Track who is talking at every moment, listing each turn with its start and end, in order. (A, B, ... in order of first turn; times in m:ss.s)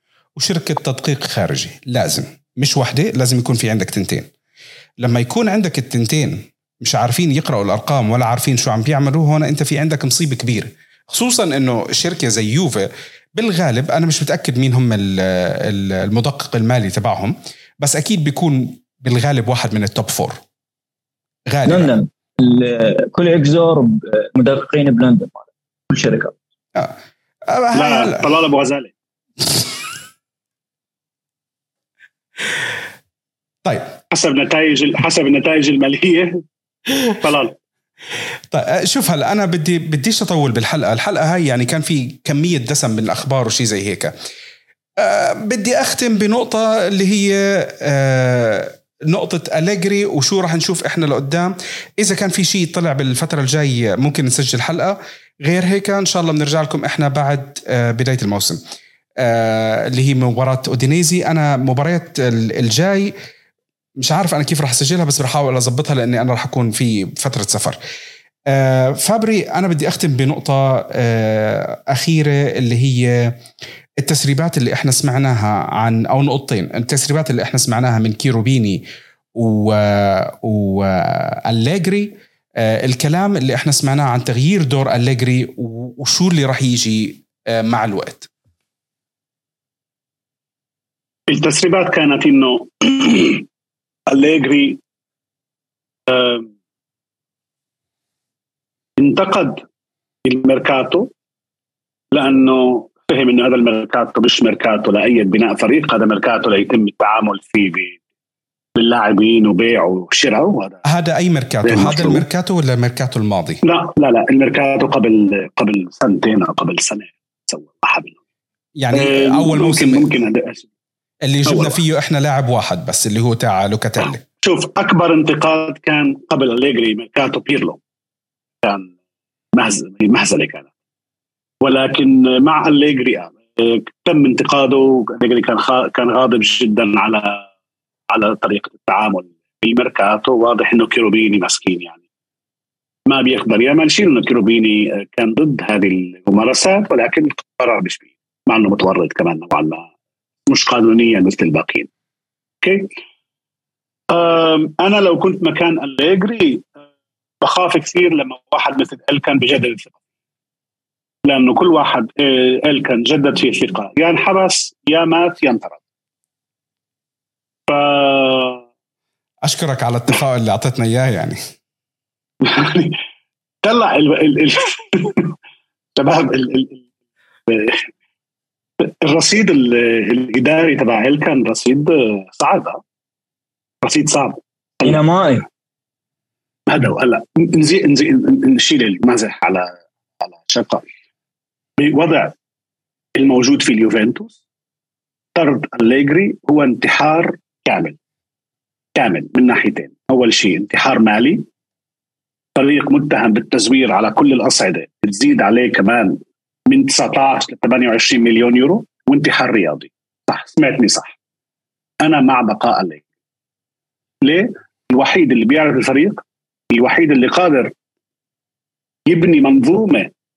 0:00.4-0:04.3 A
0:05.0-0:20.4 A
0:21.5-0:21.9 A
0:21.7-0:26.4 B
0:27.5-0:28.3 A
0:27.7-0:28.9 C
0:33.6-0:33.9 A
0:34.1-0:36.4 C
0:37.1-0:37.5 C
0:38.5-0:44.1 A
0:45.0-0:58.6 A
0:59.2-1:03.1 A
1:04.0-1:07.8 A
1:08.5-1:13.4 A
1:14.0-1:18.8 A
1:19.4-1:28.3 A
1:31.3-1:33.5 C
1:34.1-1:34.8 C
1:36.1-1:36.5 C
1:39.0-1:39.6 C
1:40.3-1:41.1 C
1:42.1-1:48.0 C
1:48.8-1:50.8 C
1:50.9-1:53.6 A
1:51.6-1:52.2 C
1:53.6-1:58.2 C
1:58.8-2:00.1 A
1:58.9-2:00.7 C
2:01.2-2:04.2 A
2:01.5-2:01.8 C
2:04.4-2:07.8 C
2:08.6-2:08.9 C
2:09.6-2:10.7 C
2:11.6-2:17.4 C
2:18.1-2:22.0 C
2:23.1-2:29.9 C
2:30.5-2:31.9 C
2:32.6-2:32.9 C
2:34.1-2:36.7 C
2:37.4-2:39.9 C
2:41.3-2:45.8 C
2:47.7-2:48.6 C
2:49.4-2:51.4 A
2:52.4-2:53.0 C
2:53.6-2:55.3 C
2:56.0-2:56.8 C
2:57.5-2:57.9 C
2:58.8-3:02.8 C
3:03.8-3:05.0 C
3:04.8-3:05.4 B
3:06.7-3:09.7 C
3:10.2-3:10.8 C
3:11.8-3:12.3 C
3:13.2-3:14.4 C
3:15.4-3:18.0 C
3:19.0-3:21.4 C
3:22.6-3:26.2 C
3:26.7-3:31.1 C
3:32.0-3:33.0 C
3:34.2-3:36.2 C
3:36.7-3:37.7 C
3:39.1-3:40.1 C